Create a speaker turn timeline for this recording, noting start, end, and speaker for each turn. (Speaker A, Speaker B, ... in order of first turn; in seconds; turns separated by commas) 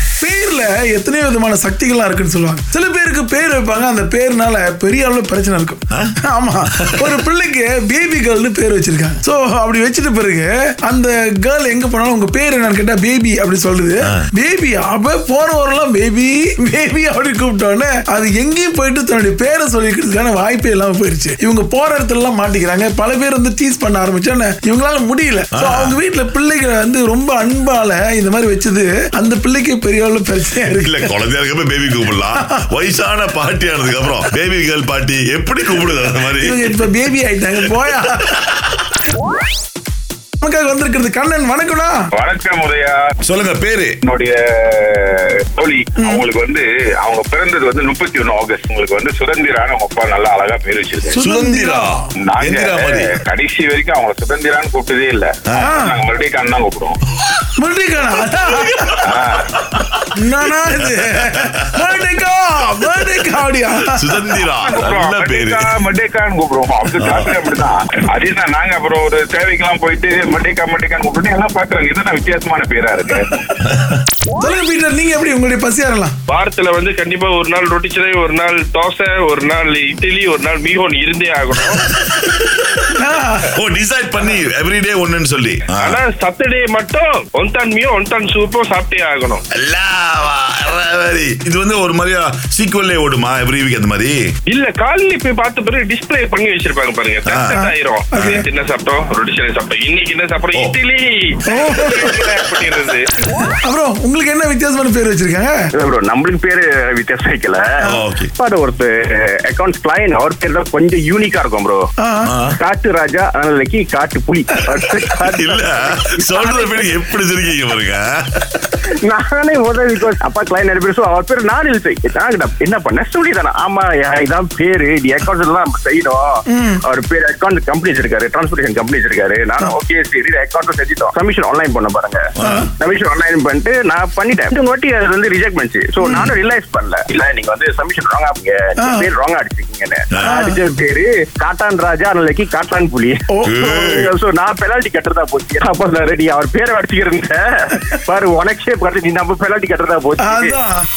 Speaker A: 0.2-31.1, Speaker B: 6.7-7.2, Speaker B: 25.5-26.0, Speaker B: 30.7-36.8, Speaker A: 36.4-38.3, Speaker A: 40.4-42.0, Speaker C: 42.1-43.0, Speaker B: 43.2-44.0, Speaker C: 44.0-51.2, Speaker A: 46.0-46.2, Speaker A: 51.1-52.1, Speaker B: 51.2-53.2, Speaker C: 52.2-57.0, Speaker B: 55.5-55.7, Speaker A: 55.6-56.0, Speaker A: 57.6-59.0, Speaker C: 59.0-59.5, Speaker B: 59.7-60.0, Speaker A: 60.1-64.3, Speaker B: 63.9-65.7, Speaker C: 64.5-73.4, Speaker B: 67.0-67.3, Speaker B: 73.7-74.0, Speaker A: 74.3-76.2, Speaker D: 76.3-81.9, Speaker B: 82.0-82.8, Speaker A: 83.0-83.5, Speaker B: 83.5-86.0, Speaker D: 85.8-89.4, Speaker B: 89.5-94.2, Speaker D: 94.5-103.1, Speaker B: 97.3-97.6, Speaker A: 97.5-98.4, Speaker B: 98.1-98.4, Speaker A: 101.5-102.1, Speaker A: 103.5-105.6, Speaker E: 105.8-107.7, Speaker B: 107.8-108.3, Speaker E: 108.4-111.8, Speaker A: 112.0-112.3, Speaker B: 112.2-112.6, Speaker E: 112.5-116.9, Speaker B: 115.3-118.8, Speaker E: 119.1-126.3, Speaker A: 126.5-126.8, Speaker E: 126.8-132.2, Speaker B: 132.4-132.7, Speaker A: 132.4-132.7, Speaker E: 132.8-150.6, Speaker A: 136.0-136.3, Speaker A: 138.8-139.1, Speaker B: 140.1-140.4, Speaker A: 140.2-140.6, Speaker A: 143.3-143.7, Speaker B: 143.4-144.1, Speaker A: 150.2-150.8